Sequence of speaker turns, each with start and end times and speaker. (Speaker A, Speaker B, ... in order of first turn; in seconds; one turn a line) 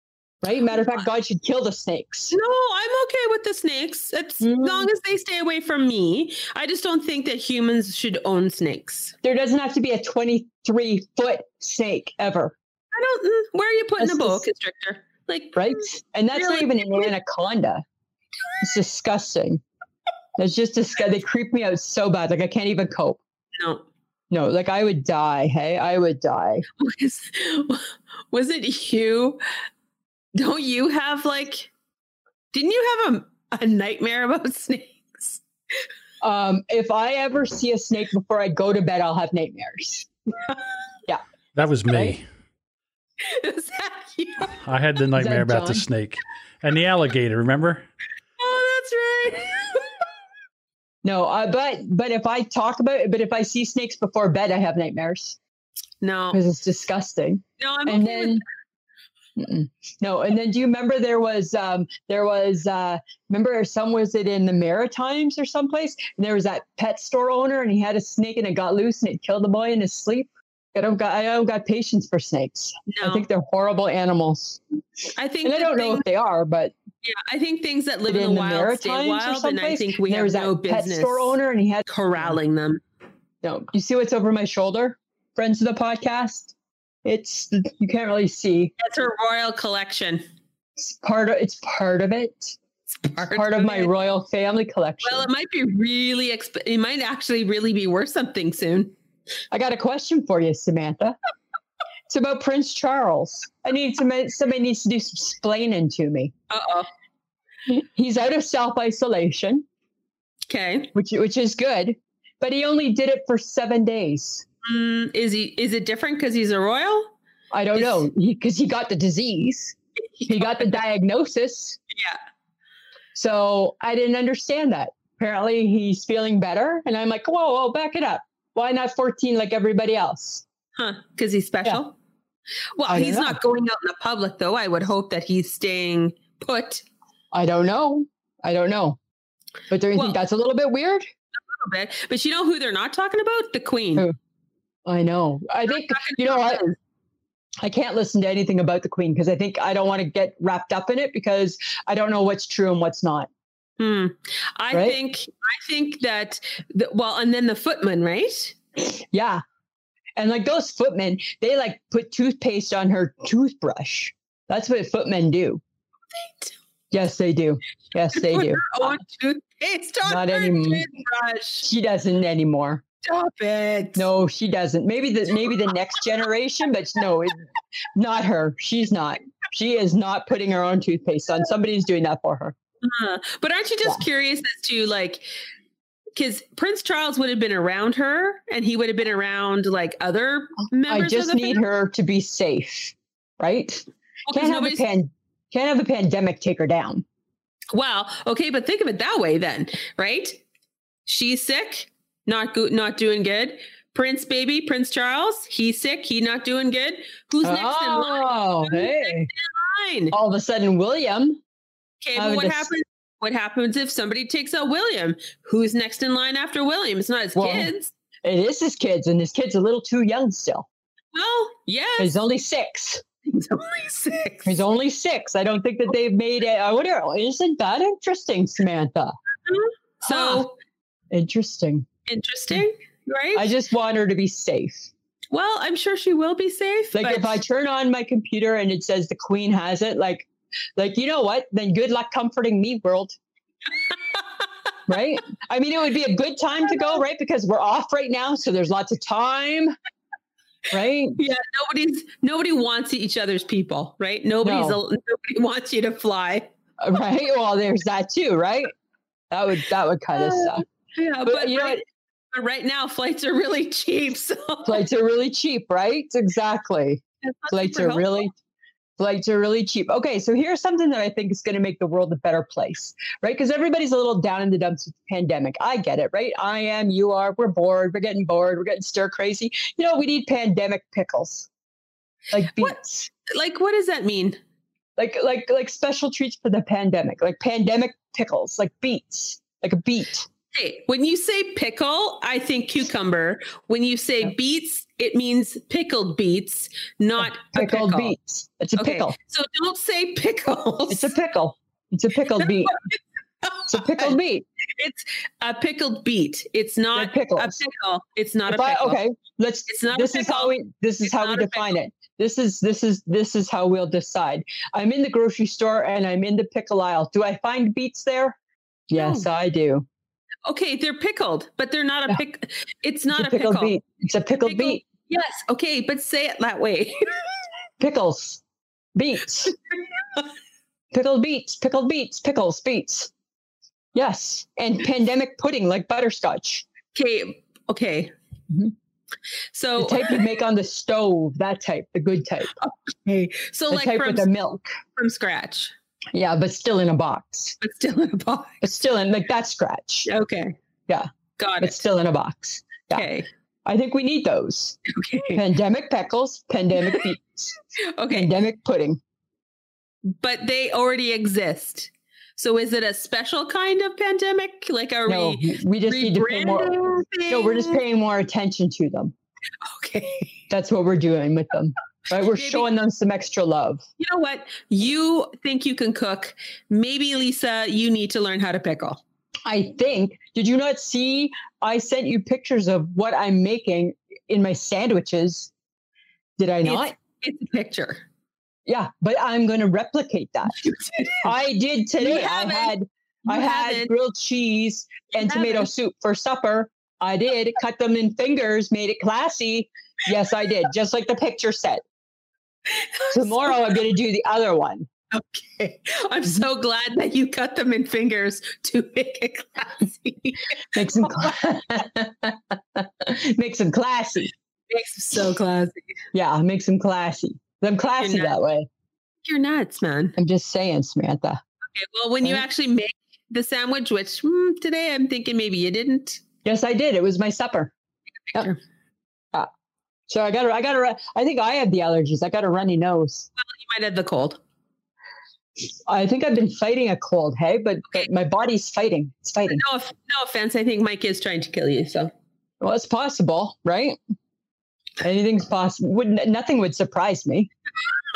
Speaker A: 0.4-2.3
Speaker B: 2.3-9.1
Speaker A: 4.4-4.9
Speaker A: 9.2-12.5
Speaker B: 12.9-15.8
Speaker A: 14.0-14.4
Speaker A: 15.5-17.8
Speaker B: 16.3-17.1
Speaker A: 18.6-19.6
Speaker A: 20.4-23.2
Speaker B: 23.6-23.9
Speaker A: 24.3-26.6
Speaker B: 26.8-29.4
Speaker B: 30.4-31.7
Speaker B: 32.5-35.4
Speaker A: 36.2-40.1
Speaker C: 41.5-42.2
Speaker A: 41.9-42.1
Speaker B: 43.2-44.6
Speaker C: 44.6-47.9
Speaker A: 45.1-45.8
Speaker B: 48.4-50.0
Speaker A: 51.0-55.4
Speaker B: 56.0-56.4
Speaker A: 56.3-58.4
Speaker B: 57.6-58.4
Speaker A: 59.4-74.6
Speaker B: 72.9-73.3
Speaker B: 75.2-76.0
Speaker A: 75.4-76.7
Speaker B: 77.0-82.8
Speaker A: 78.1-82.4
Speaker A: 83.4-86.5
Speaker A: 87.0-88.7
Speaker B: 88.8-90.2
Speaker A: 90.8-92.6
Speaker B: 93.0-93.9
Speaker A: 93.2-95.3
Speaker B: 95.0-99.0
Speaker A: 99.5-101.2
Speaker A: 102.1-106.3
Speaker B: 106.5-106.9
Speaker A: 107.7-109.7
Speaker B: 110.5-110.9
Speaker A: 110.9-114.5
Speaker B: 114.6-117.1
Speaker A: 117.5-119.8
Speaker B: 117.7-118.0
Speaker B: 120.2-120.7
Speaker A: 120.3-121.8
Speaker B: 121.9-122.2
Speaker A: 123.1-130.4
Speaker B: 130.8-132.0
Speaker B: 132.8-136.8
Speaker A: 132.9-133.4
Speaker A: 137.3-139.0
Speaker A: 139.7-141.1
Speaker B: 139.9-140.2
Speaker B: 141.5-144.1
Speaker A: 144.8-146.6
Speaker B: 145.7-146.8
Speaker A: 147.6-153.3
Speaker B: 153.8-158.6
Speaker A: 154.7-155.0
Speaker A: 158.8-159.4
Speaker A: 160.2-165.6
Speaker B: 166.1-166.5
Speaker A: 166.9-168.9
Speaker B: 168.1-171.7
Speaker A: 170.0-170.8
Speaker A: 171.6-172.8
Speaker B: 173.0-174.1
Speaker A: 173.9-177.4
Speaker A: 177.9-182.5
Speaker B: 182.8-185.2
Speaker B: 186.2-191.6
Speaker A: 190.9-197.0
Speaker B: 194.3-194.8
Speaker B: 197.7-200.4
Speaker B: 201.1-210.1
Speaker A: 207.4-209.3
Speaker A: 210.1-211.4
Speaker B: 212.0-217.9
Speaker A: 212.2-212.7
Speaker A: 217.3-217.7
Speaker A: 218.2-220.7
Speaker B: 221.1-222.1
Speaker A: 222.0-223.0
Speaker B: 223.2-224.6
Speaker A: 224.4-229.1
Speaker B: 229.5-230.6
Speaker A: 230.0-230.4
Speaker A: 231.1-231.9
Speaker B: 232.1-233.5
Speaker A: 233.3-234.9
Speaker B: 235.3-237.4
Speaker A: 236.9-243.2
Speaker B: 243.9-244.2
Speaker A: 244.9-249.7
Speaker A: 250.7-251.2
Speaker B: 251.2-256.5
Speaker A: 254.4-254.8
Speaker A: 256.8-258.7
Speaker A: 259.3-260.6
Speaker B: 260.1-264.8
Speaker A: 261.2-261.8
Speaker A: 264.6-268.3
Speaker B: 267.2-268.3
Speaker A: 269.0-281.5
Speaker A: 282.3-283.1
Speaker B: 282.5-282.8
Speaker B: 283.3-284.4
Speaker A: 285.0-290.3
Speaker B: 290.5-298.1
Speaker A: 297.2-299.1
Speaker B: 298.8-301.1
Speaker A: 300.9-302.8
Speaker B: 302.4-304.1
Speaker A: 303.7-304.4
Speaker B: 304.8-309.0
Speaker A: 306.9-307.6
Speaker A: 308.4-318.4
Speaker B: 309.7-311.7
Speaker A: 318.9-319.9
Speaker B: 318.9-319.2
Speaker B: 320.4-323.8
Speaker A: 323.1-324.8
Speaker B: 324.4-327.1
Speaker A: 327.8-328.4
Speaker A: 328.9-329.5
Speaker A: 330.9-333.1
Speaker A: 333.9-336.6
Speaker B: 336.9-338.1
Speaker B: 339.5-340.2
Speaker A: 339.8-342.5
Speaker B: 342.6-344.3
Speaker A: 343.7-344.7
Speaker B: 344.9-345.7
Speaker A: 346.1-347.6
Speaker B: 347.6-348.6
Speaker A: 348.6-350.1
Speaker B: 350.1-350.5
Speaker B: 351.4-351.8
Speaker A: 351.6-353.1
Speaker B: 352.9-353.3
Speaker A: 353.6-354.8
Speaker B: 354.9-355.4
Speaker A: 355.3-357.5
Speaker B: 356.8-357.1
Speaker B: 357.9-358.3
Speaker A: 358.1-359.0
Speaker B: 360.1-367.8
Speaker A: 365.1-369.1
Speaker B: 369.6-370.4
Speaker A: 370.5-373.8
Speaker B: 372.2-372.7
Speaker B: 374.0-379.0
Speaker A: 379.4-385.5
Speaker A: 386.4-386.9
Speaker B: 386.6-388.0
Speaker A: 388.6-390.6
Speaker B: 390.5-391.3
Speaker A: 391.2-401.8
Speaker B: 392.0-392.7
Speaker B: 393.2-393.9
Speaker B: 395.1-395.7
Speaker B: 402.7-403.6
Speaker A: 403.1-404.9
Speaker B: 405.1-411.3
Speaker A: 410.7-414.3
Speaker B: 414.7-415.8
Speaker A: 416.1-418.7
Speaker B: 418.0-418.3
Speaker B: 419.2-420.1
Speaker A: 420.2-421.4
Speaker B: 421.7-426.2
Speaker A: 426.4-427.7
Speaker B: 428.3-428.6
Speaker A: 430.1-433.3
Speaker B: 433.4-434.4
Speaker A: 435.9-439.6
Speaker B: 439.5-442.1
Speaker A: 442.6-444.0
Speaker A: 445.0-447.5